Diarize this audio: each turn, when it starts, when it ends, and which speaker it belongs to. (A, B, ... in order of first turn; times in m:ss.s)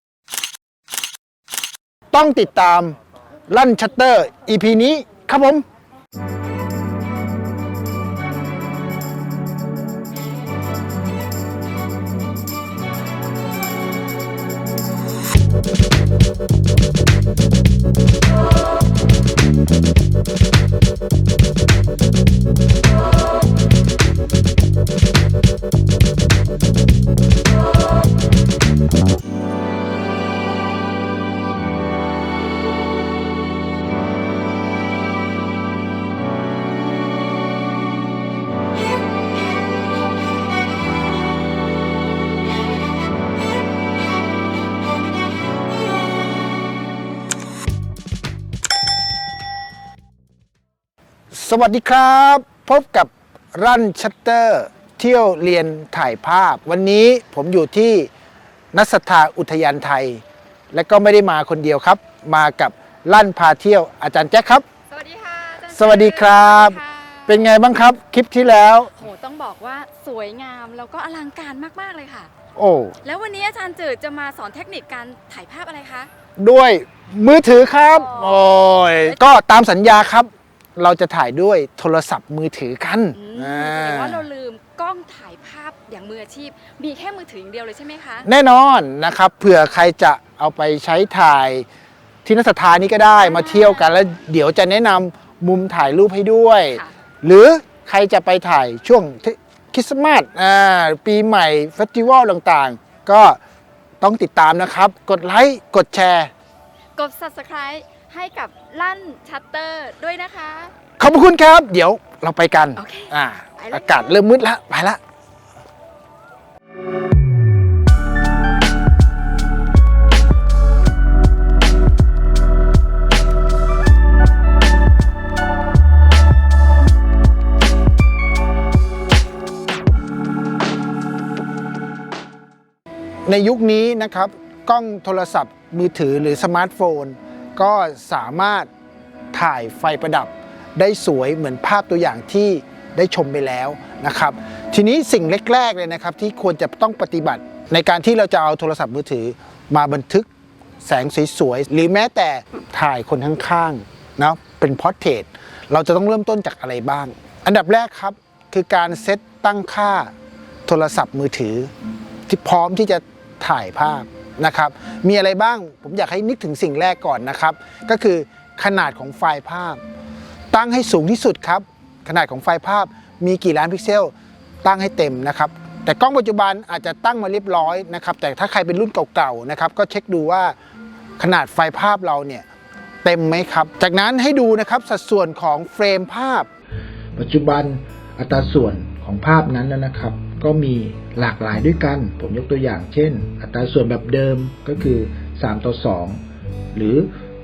0:02.1-0:03.0 A
0:03.5-0:05.6 A
0:51.3-0:58.1 A
0:58.7-1:04.6 A
1:04.9-1:07.5 B
1:05.7-1:08.9 A
1:09.0-1:12.3 B
1:12.6-1:12.9 A
1:13.0-1:16.1 B
1:16.4-1:24.2 A
1:17.9-1:19.2 B
1:23.1-1:28.2 B
1:28.2-1:31.6 A
1:32.2-1:43.4 A
1:33.2-1:33.9 B
1:44.0-1:46.3 A
1:47.0-1:50.7 B
1:51.0-1:55.0 A
1:52.8-1:54.1 B
2:13.2-2:18.7 A
2:19.3-2:30.3 A
2:30.8-2:40.1 A
2:40.7-2:41.7 A
2:42.3-2:49.8 A
2:50.5-3:00.5 A
3:01.2-3:02.4 A
3:03.0-3:06.5 A
3:07.2-3:16.2 C
3:16.7-3:17.1 C